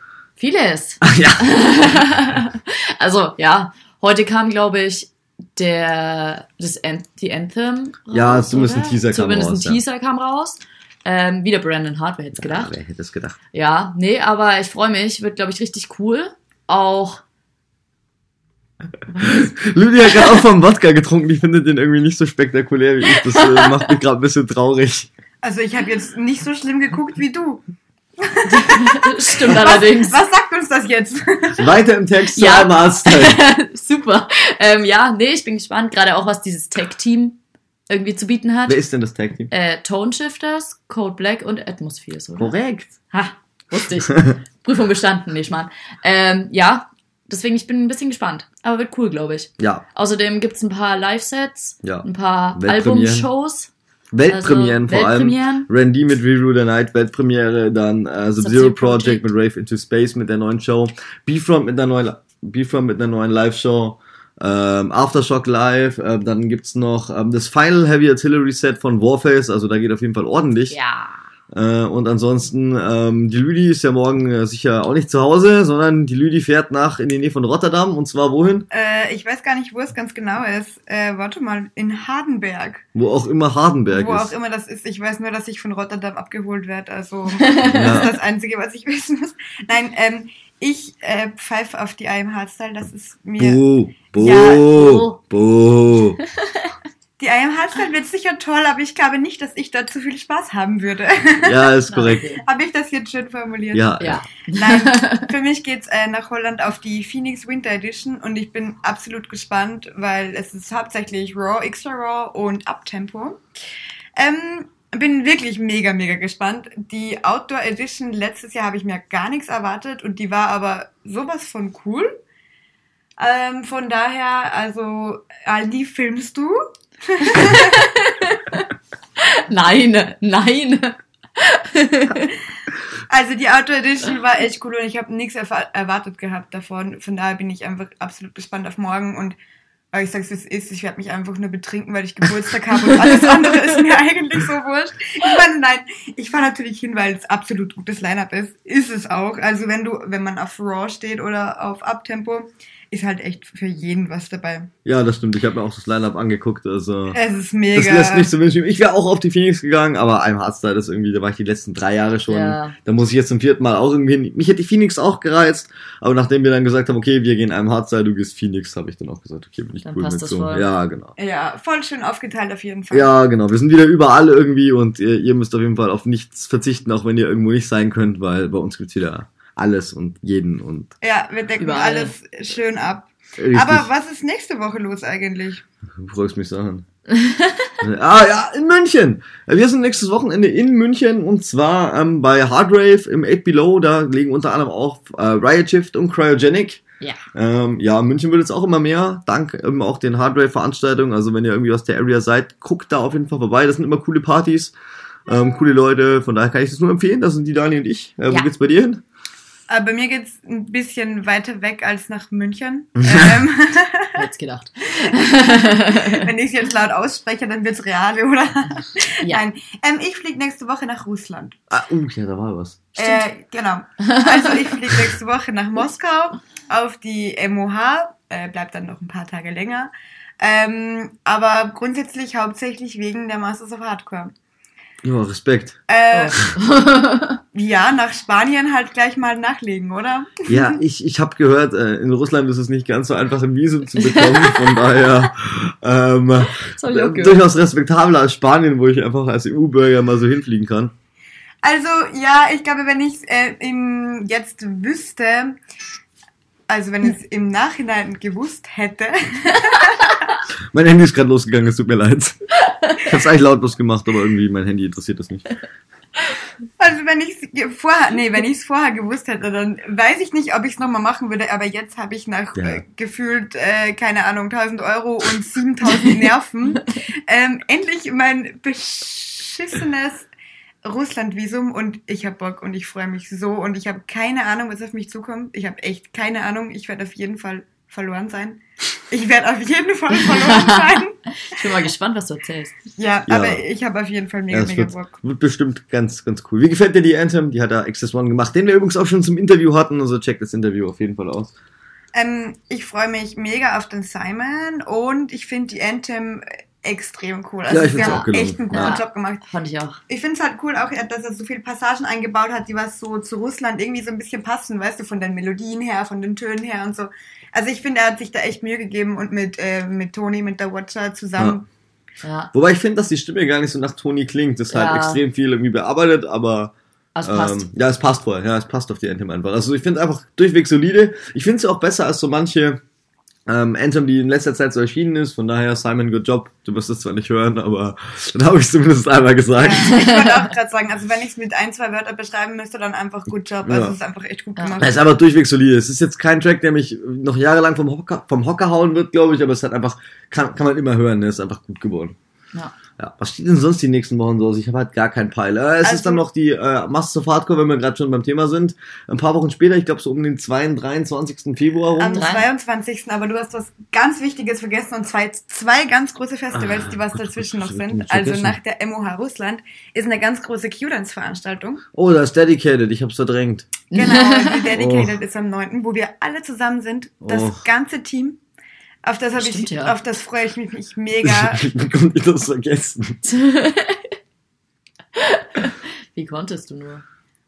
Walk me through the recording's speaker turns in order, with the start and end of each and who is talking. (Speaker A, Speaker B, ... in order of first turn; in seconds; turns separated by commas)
Speaker A: 0.4-12.7, Speaker B: 1.0-1.9, Speaker B: 8.1-9.8, Speaker B: 12.4-13.4, Speaker A: 13.5-17.2, Speaker B: 19.2-25.1, Speaker A: 23.1-23.9, Speaker C: 25.4-27.6, Speaker C: 28.2-31.7, Speaker A: 28.4-30.2, Speaker B: 31.6-33.4, Speaker A: 32.3-38.8, Speaker B: 38.7-39.5, Speaker A: 39.5-42.5, Speaker B: 42.4-43.0, Speaker A: 43.1-53.7, Speaker B: 51.8-53.3, Speaker B: 54.1-70.8, Speaker A: 54.3-55.7, Speaker A: 58.4-59.3, Speaker A: 70.7-71.2, Speaker B: 71.5-78.7, Speaker C: 78.7-82.8, Speaker B: 82.9-84.3, Speaker C: 83.9-93.6, Speaker A: 87.4-88.0, Speaker B: 87.6-88.1, Speaker B: 93.4-96.2, Speaker C: 94.1-94.8, Speaker A: 94.7-95.2, Speaker A: 96.4-96.7, Speaker C: 97.2-101.7, Speaker B: 101.4-102.3, Speaker A: 101.9-102.4, Speaker C: 102.3-113.4, Speaker B: 103.7-104.2, Speaker A: 104.0-105.3, Speaker C: 114.2-122.2, Speaker C: 123.2-127.9, Speaker A: 127.3-132.3, Speaker C: 133.1-139.3, Speaker C: 139.9-154.7, Speaker A: 143.1-143.7, Speaker B: 154.8-157.2, Speaker C: 157.1-158.3, Speaker B: 157.7-171.1, Speaker A: 162.3-162.7, Speaker A: 169.8-170.7, Speaker C: 171.2-173.1, Speaker B: 172.9-180.9, Speaker C: 181.0-185.6, Speaker A: 181.6-182.1, Speaker B: 183.4-183.9, Speaker B: 186.0-186.8, Speaker A: 187.1-187.7, Speaker B: 187.8-196.8, Speaker B: 197.3-204.7, Speaker B: 205.3-209.0, Speaker C: 209.7-214.2, Speaker B: 213.0-213.4, Speaker A: 214.2-216.2, Speaker C: 215.0-221.6, Speaker B: 221.7-222.9, Speaker C: 222.9-234.3, Speaker A: 224.0-224.7, Speaker B: 235.0-235.8, Speaker C: 235.9-236.4, Speaker A: 236.1-237.4, Speaker C: 237.5-240.8, Speaker B: 240.5-250.9, Speaker A: 244.0-245.1, Speaker A: 246.5-247.4, Speaker C: 251.6-255.6, Speaker C: 256.7-260.3, Speaker B: 260.7-262.4, Speaker B: 263.0-265.5, Speaker C: 266.8-280.3, Speaker B: 272.5-272.8, Speaker C: 280.8-291.1, Speaker A: 290.2-292.8, Speaker C: 292.9-295.1, Speaker B: 293.3-293.6, Speaker B: 294.5-301.5, Speaker C: 302.1-309.4, Speaker B: 307.7-309.0, Speaker A: 307.9-310.0, Speaker C: 310.1-321.6, Speaker A: 322.2-322.5, Speaker B: 322.5-326.7, Speaker A: 324.7-325.2, Speaker A: 327.1-327.6, Speaker B: 327.2-332.8, Speaker B: 333.5-339.9, Speaker C: 339.6-345.0, Speaker A: 339.8-340.5, Speaker B: 343.6-343.9, Speaker B: 344.8-352.1, Speaker B: 353.0-362.3, Speaker C: 355.8-356.2, Speaker C: 362.0-371.8, Speaker A: 362.1-362.4, Speaker B: 366.5-368.6, Speaker B: 371.9-373.7, Speaker A: 373.9-374.6, Speaker C: 373.9-378.4, Speaker B: 374.7-375.1, Speaker B: 377.2-377.6, Speaker C: 379.0-381.6, Speaker A: 379.4-379.9, Speaker B: 381.2-383.2, Speaker A: 383.2-384.1, Speaker A: 385.1-387.0